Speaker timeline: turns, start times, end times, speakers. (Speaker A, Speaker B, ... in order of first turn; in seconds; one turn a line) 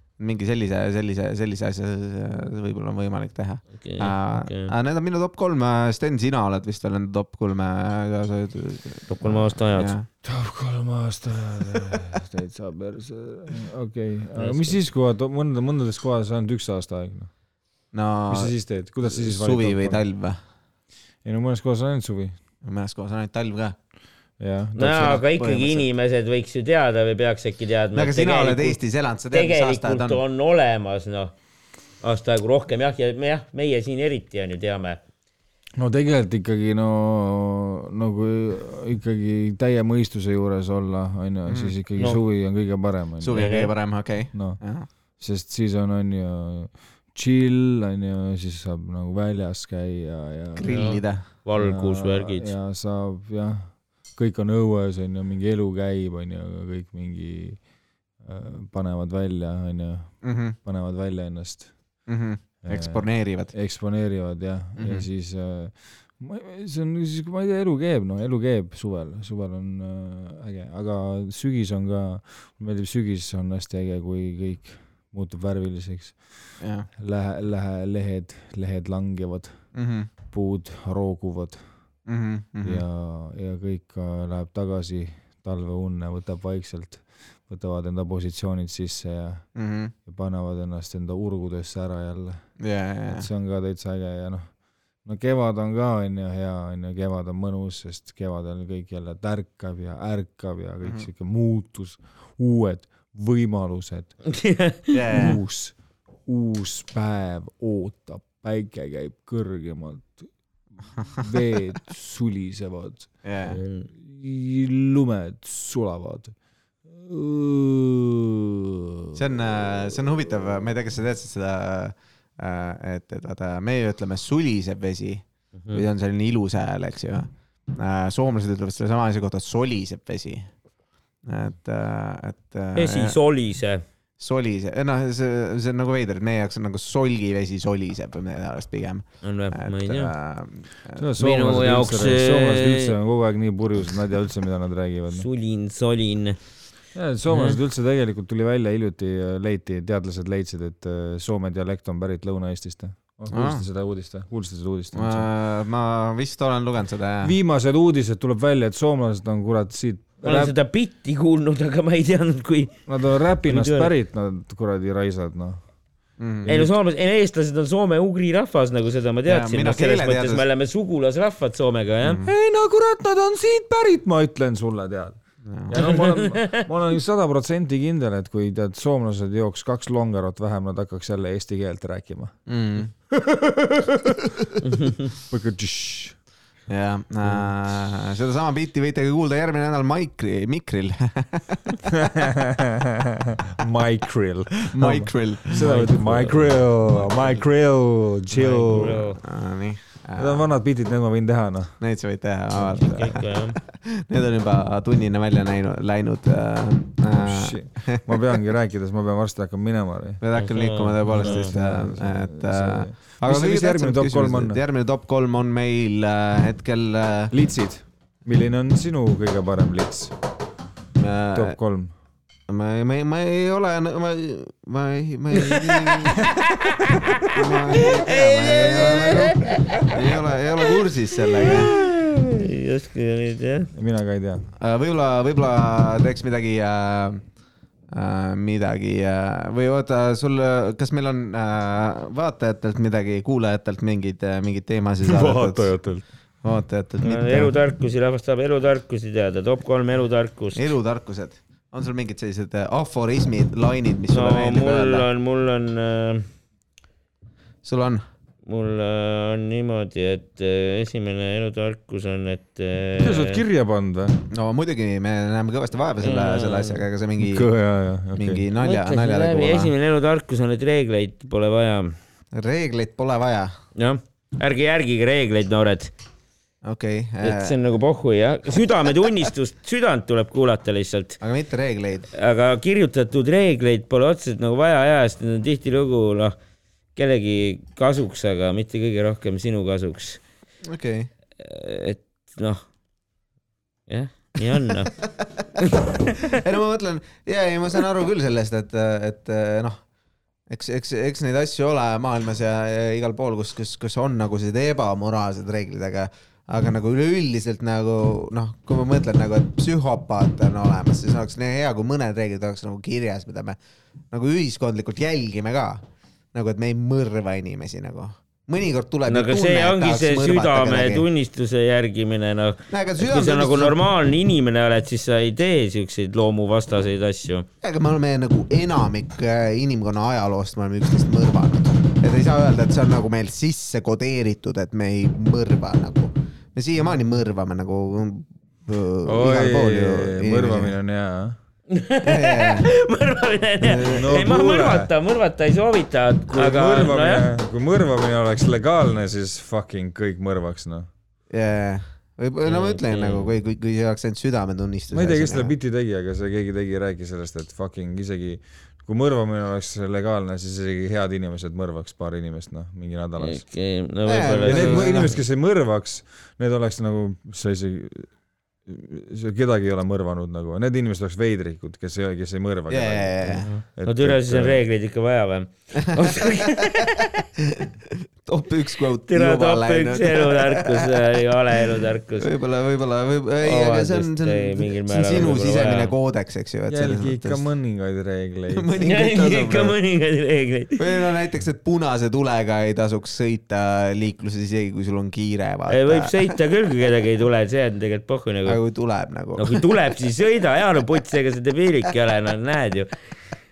Speaker A: 0.2-10.1
Speaker B: 3.8-4.7
Speaker B: 9.1-9.9
Speaker C: 10.2-17.3
Speaker B: 14.4-14.8
Speaker A: 17.9-20.4
Speaker C: 18.3-20.0
Speaker C: 21.2-22.4
Speaker A: 22.6-23.8
Speaker C: 24.4-25.2
Speaker B: 24.8-28.8
Speaker A: 24.8-25.9
Speaker A: 27.9-30.2
Speaker B: 29.3-31.3
Speaker B: 32.0-35.0
Speaker C: 35.8-43.5
Speaker A: 41.5-41.7
Speaker A: 43.2-44.9
Speaker B: 43.3-43.7
Speaker C: 44.3-44.6
Speaker C: 45.2-50.8
Speaker A: 50.5-51.2
Speaker B: 50.6-52.5
Speaker C: 51.6-57.6
Speaker C: 58.2-61.7
Speaker A: 60.2-60.5
Speaker A: 62.1-63.5
Speaker C: 62.6-79.7
Speaker A: 64.8-65.0
Speaker A: 76.6-76.9
Speaker A: 79.7-80.1
Speaker C: 80.3-81.6
Speaker A: 82.1-82.8
Speaker C: 82.6-89.5
Speaker A: 89.5-89.9
Speaker C: 90.0-92.5
Speaker A: 92.6-93.3
Speaker C: 93.1-104.3
Speaker B: 104.3-105.3
Speaker A: 104.9-105.4
Speaker C: 105.1-110.3
Speaker C: 111.0-116.3
Speaker A: 113.2-113.6
Speaker B: 113.5-113.9
Speaker C: 116.8-119.2
Speaker A: 119.1-130.5
Speaker A: 131.2-133.2
Speaker B: 132.7-133.8
Speaker A: 134.2-141.0
Speaker B: 139.2-140.1
Speaker C: 140.9-145.3
Speaker B: 141.2-142.9
Speaker B: 145.1-146.4
Speaker C: 146.9-155.3
Speaker B: 147.3-147.6
Speaker A: 153.3-153.6
Speaker A: 154.9-157.3
Speaker C: 157.2-160.5
Speaker B: 160.2-162.7
Speaker C: 162.9-165.6
Speaker B: 163.4-163.9
Speaker A: 166.2-166.5
Speaker C: 166.4-166.7
Speaker B: 166.5-172.2
Speaker A: 169.3-170.4
Speaker A: 172.0-172.3
Speaker C: 172.2-182.3
Speaker A: 175.4-175.8
Speaker B: 175.7-176.6
Speaker A: 182.5-182.9
Speaker C: 183.1-186.2
Speaker B: 184.6-185.1
Speaker A: 186.7-191.8
Speaker C: 187.2-187.5
Speaker C: 191.8-199.1
Speaker A: 194.7-195.7
Speaker B: 195.5-197.3
Speaker B: 198.3-199.2
Speaker A: 199.2-200.5
Speaker C: 200.2-201.8
Speaker A: 201.8-208.4
Speaker B: 202.6-203.6
Speaker C: 207.1-210.2
Speaker A: 210.2-217.3
Speaker B: 210.3-211.5
Speaker C: 211.1-214.6
Speaker C: 217.3-220.1
Speaker A: 220.9-221.6
Speaker C: 221.3-221.9
Speaker A: 222.5-226.5
Speaker B: 225.5-230.2
Speaker A: 227.2-231.8
Speaker B: 231.2-233.7
Speaker C: 233.7-234.5
Speaker A: 234.6-237.2
Speaker A: 237.9-245.7
Speaker C: 245.0-246.0
Speaker A: 246.4-247.5
Speaker B: 247.0-250.7
Speaker A: 250.5-255.1
Speaker B: 254.1-256.3
Speaker A: 257.6-258.0
Speaker B: 258.4-263.4
Speaker C: 263.0-264.2
Speaker A: 264.3-267.5
Speaker B: 266.0-266.8
Speaker C: 267.2-268.4
Speaker A: 268.1-269.7
Speaker B: 268.6-271.9
Speaker A: 272.3-273.5
Speaker B: 273.8-275.9
Speaker A: 276.6-277.6
Speaker B: 277.2-281.2
Speaker A: 281.2-282.1
Speaker B: 282.1-286.4
Speaker B: 286.9-290.2
Speaker A: 290.7-291.1
Speaker B: 291.4-292.6
Speaker B: 293.9-294.9
Speaker B: 295.6-296.4
Speaker A: 296.2-299.8
Speaker A: 300.5-313.6
Speaker A: 314.1-321.1
Speaker B: 319.1-327.5
Speaker A: 322.7-323.8
Speaker A: 327.6-340.7
Speaker C: 339.0-341.4
Speaker B: 341.7-347.3
Speaker A: 342.0-342.7
Speaker A: 343.6-344.2
Speaker C: 343.9-344.9
Speaker C: 346.3-350.9
Speaker A: 351.3-355.5
Speaker B: 352.4-353.3
Speaker C: 354.9-363.4
Speaker B: 363.2-365.1
Speaker A: 364.1-365.2
Speaker C: 364.5-368.1
Speaker C: 368.7-374.6
Speaker A: 372.7-373.5
Speaker B: 373.4-377.2
Speaker A: 375.8-380.9
Speaker B: 379.1-382.3
Speaker A: 381.7-387.4
Speaker B: 383.4-385.9
Speaker C: 386.7-388.7
Speaker A: 388.5-389.8
Speaker B: 388.8-390.8
Speaker A: 390.8-396.1
Speaker B: 395.7-398.6
Speaker A: 398.4-399.6
Speaker B: 399.4-402.9